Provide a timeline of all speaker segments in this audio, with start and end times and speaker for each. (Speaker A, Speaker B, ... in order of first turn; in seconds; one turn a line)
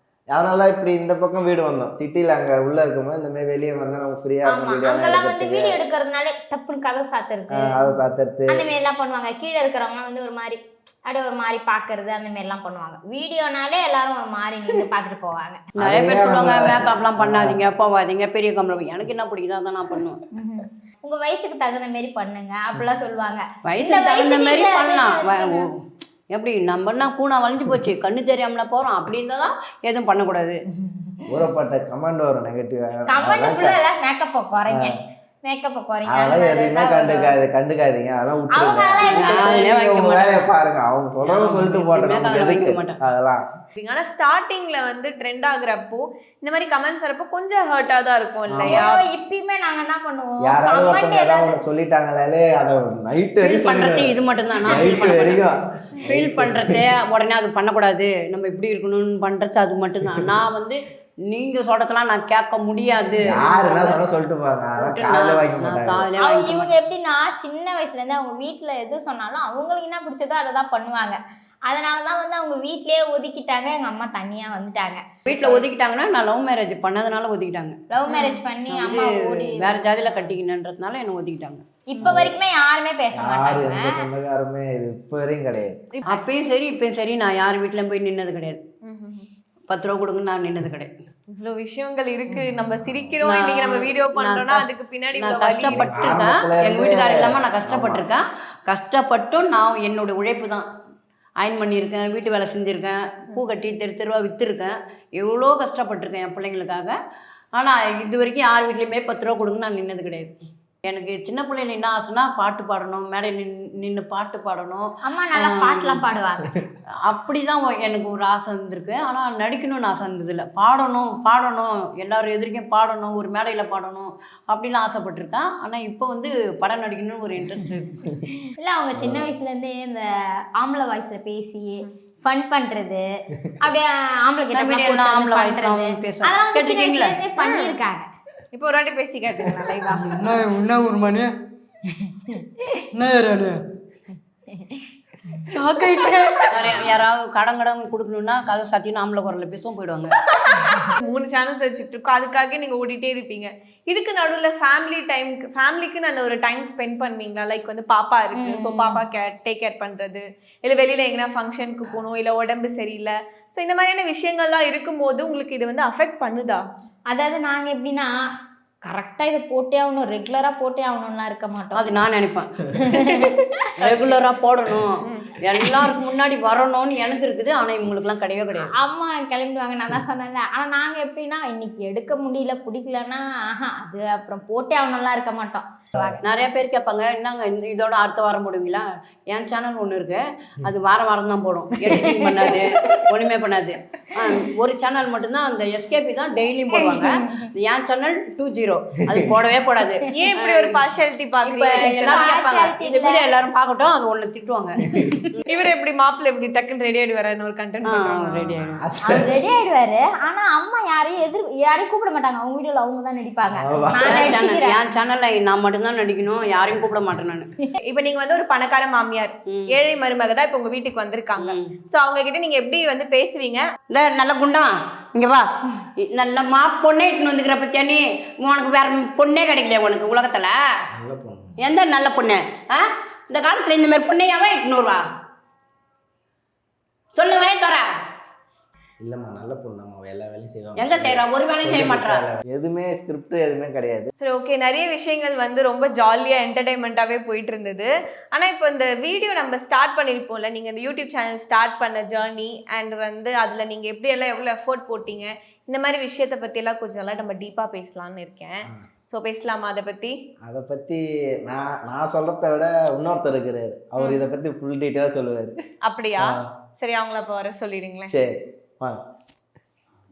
Speaker A: 0.3-5.8
Speaker B: 4.5-7.8
Speaker A: 7.5-8.7
Speaker B: 8.5-15.6
Speaker A: 15.8-17.6
Speaker C: 15.8-20.2
Speaker B: 20.3-25.6
Speaker C: 23.6-25.7
Speaker C: 26.3-30.6
Speaker A: 31.3-33.8
Speaker B: 33.1-37.3
Speaker A: 34.7-35.0
Speaker A: 36.1-43.5
Speaker B: 38.5-39.5
Speaker C: 39.2-40.4
Speaker C: 41.2-43.0
Speaker D: 43.8-49.0
Speaker A: 48.5-48.8
Speaker B: 48.7-51.6
Speaker A: 50.4-56.9
Speaker C: 53.4-55.4
Speaker C: 56.0-64.0
Speaker A: 63.2-66.1
Speaker C: 64.8-66.7
Speaker B: 66.2-75.6
Speaker C: 75.2-77.8
Speaker B: 77.9-79.6
Speaker D: 78.1-78.4
Speaker C: 78.7-81.7
Speaker B: 81.9-84.0
Speaker A: 82.0-82.3
Speaker A: 83.1-85.7
Speaker D: 85.9-86.2
Speaker C: 86.0-88.6
Speaker D: 88.8-89.3
Speaker C: 89.7-90.9
Speaker D: 91.3-96.2
Speaker C: 93.2-100.7
Speaker A: 95.7-98.0
Speaker C: 101.4-107.0
Speaker C: 107.5-110.3
Speaker C: 110.8-116.0
Speaker B: 115.0-116.5
Speaker C: 117.0-128.0
Speaker B: 128.6-133.0
Speaker A: 128.9-129.3
Speaker B: 133.6-138.1
Speaker C: 134.5-137.2
Speaker D: 137.4-137.7
Speaker D: 138.5-140.2
Speaker E: 139.9-141.3
Speaker E: 142.9-143.6
Speaker D: 145.5-146.8
Speaker C: 146.5-150.1
Speaker D: 150.5-166.6
Speaker B: 158.4-159.0
Speaker B: 167.1-168.1
Speaker B: 168.8-171.9
Speaker C: 171.7-173.0
Speaker B: 172.8-173.3
Speaker C: 173.8-178.7
Speaker D: 173.9-174.2
Speaker D: 175.0-175.4
Speaker B: 178.8-186.2
Speaker C: 186.2-200.8
Speaker B: 192.0-193.0
Speaker B: 196.8-197.5
Speaker A: 199.1-199.3
Speaker D: 200.1-202.3
Speaker C: 201.4-205.4
Speaker B: 202.1-203.2
Speaker D: 205.4-208.6
Speaker C: 207.8-208.8
Speaker A: 208.8-209.3
Speaker B: 209.0-214.8
Speaker A: 213.5-214.4
Speaker C: 214.1-217.5
Speaker D: 217.8-223.7
Speaker C: 219.5-219.8
Speaker C: 221.4-221.7
Speaker C: 223.9-230.6
Speaker A: 230.9-231.6
Speaker C: 231.6-235.0
Speaker C: 237.1-237.9
Speaker A: 239.0-244.1
Speaker C: 240.8-242.2
Speaker D: 244.2-260.2
Speaker A: 260.4-265.6
Speaker D: 264.0-264.3
Speaker D: 265.8-268.1
Speaker A: 268.1-269.0